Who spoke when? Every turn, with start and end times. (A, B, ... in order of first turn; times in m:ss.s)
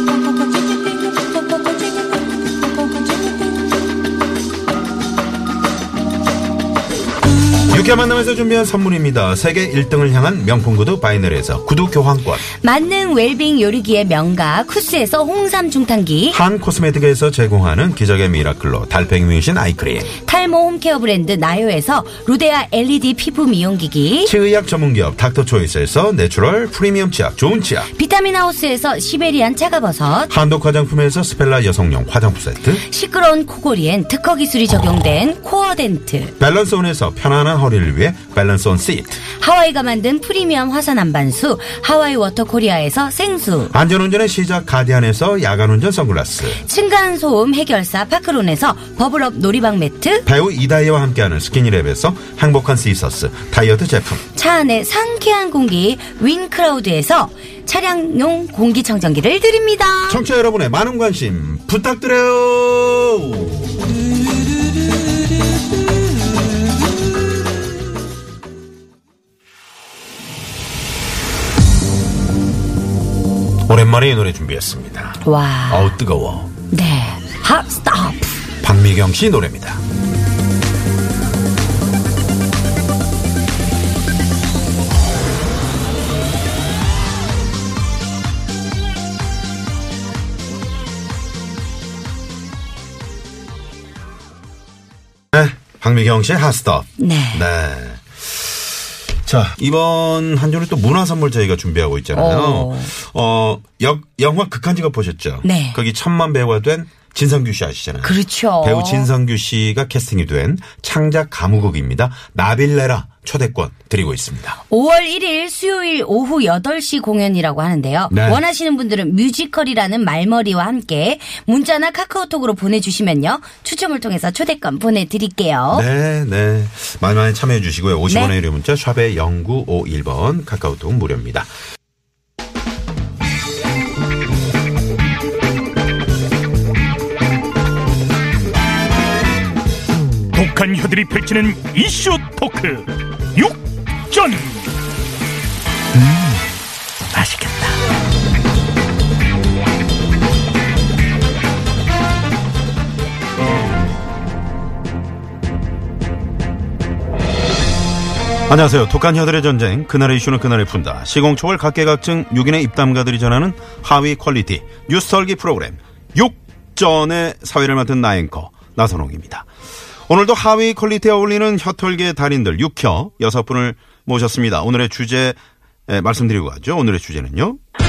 0:07.7-0:12.4 A
0:12.6-0:16.4 B
0:16.3-0:20.1 A
0:20.1-0:24.3 B
0:24.2-0:27.9 A
0:27.9-0:30.3 B
0:30.3-0:32.8 A
0:32.8-0:36.3 B
0:36.4-0:39.2 A
0:39.3-0:43.7 B
0:43.7-0:46.6 A
0:46.5-0:50.2 B
0:50.2-0:54.2 A
0:54.3-1:00.2 B
1:00.1-1:03.8 A
1:13.6-1:16.5 A
1:15.2-1:15.9 B
1:16.7-1:18.4 B
1:18.6-1:19.8 A
1:35.3-1:38.6 A
1:37.0-1:37.4 B
1:39.2-1:54.6 A
1:42.1-1:42.9 B
1:45.4-1:45.8 B
1:48.0-1:49.1 B
1:54.7-2:05.8 B
1:58.1-1:58.4 A
2:05.7-2:11.5 A
2:08.1-2:08.3 B
2:20.3-2:24.7 C
2:38.5-2:49.5 A
2:50.1-2:55.4 A
2:55.9-2:57.6 A